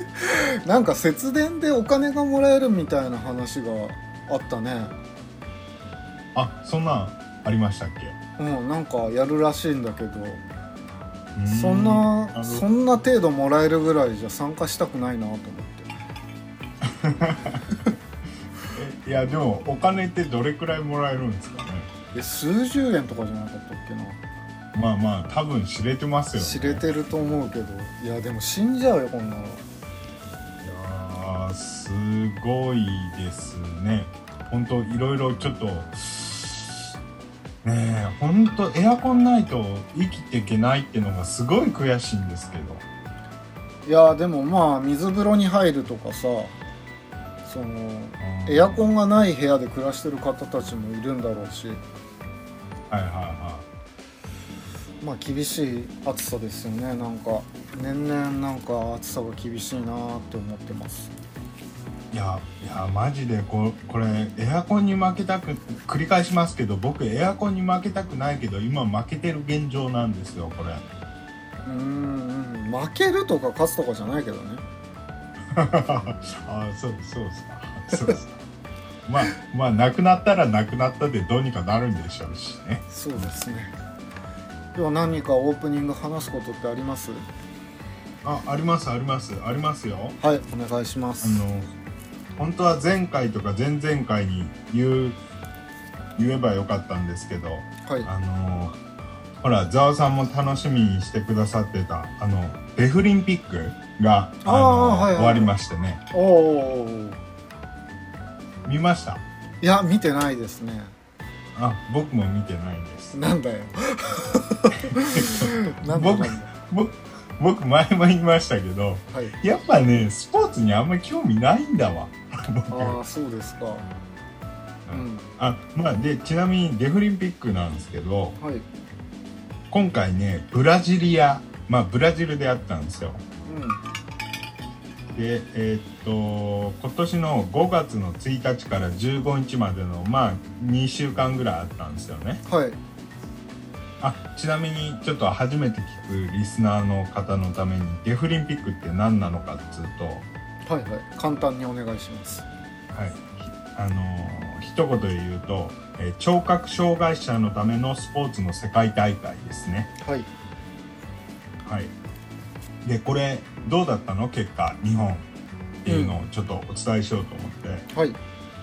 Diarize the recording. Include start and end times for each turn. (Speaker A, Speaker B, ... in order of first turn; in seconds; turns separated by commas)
Speaker A: 0.2-4.9, Speaker B: 6.3-8.2, Speaker A: 8.4-10.4, Speaker B: 11.3-12.6, Speaker A: 11.5-15.9, Speaker B: 16.8-17.7, Speaker B: 18.7-21.9, Speaker A: 22.1-24.2, Speaker B: 24.7-26.8, Speaker A: 26.4-29.6, Speaker B: 30.6-36.9, Speaker B: 37.6-42.8, Speaker A: 43.9-46.5, Speaker A: 47.4-51.8, Speaker B: 48.2-48.9, Speaker B: 52.9-53.6, Speaker A: 55.0-61.2, Speaker B: 62.1-70.8, Speaker A: 71.6-74.6, Speaker B: 75.5-78.4, Speaker B: 79.0-82.8, Speaker A: 82.9-83.7, Speaker A: 84.7-87.2, Speaker B: 88.2-90.2, Speaker A: 90.2-91.4, Speaker B: 91.2-91.7, Speaker B: 92.3-95.2, Speaker B: 96.2-98.8, Speaker B: 99.4-106.0, Speaker A: 104.4-105.5, Speaker A: 106.1-107.2, Speaker B: 108.6-109.2, Speaker A: 109.6-110.9, Speaker B: 111.5-113.2, Speaker A: 113.1-116.5, Speaker B: 114.7-123.0, Speaker A: 122.7-123.9, Speaker B: 124.8-128.4, Speaker A: 124.9-125.3, Speaker A: 128.4-128.7, Speaker B: 129.7-133.2, Speaker A: 133.4-133.8, Speaker B: 135.1-142.4, Speaker A: 142.4-142.8, Speaker B: 144.0-150.2, Speaker A: 150.7-152.4, Speaker B: 152.9-159.9, Speaker A: 160.0-160.3, Speaker B: 161.6-161.9, Speaker B: 162.8-165.2, Speaker B: 165.8-167.9, Speaker A: 165.9-166.2, Speaker A: 167.9-168.2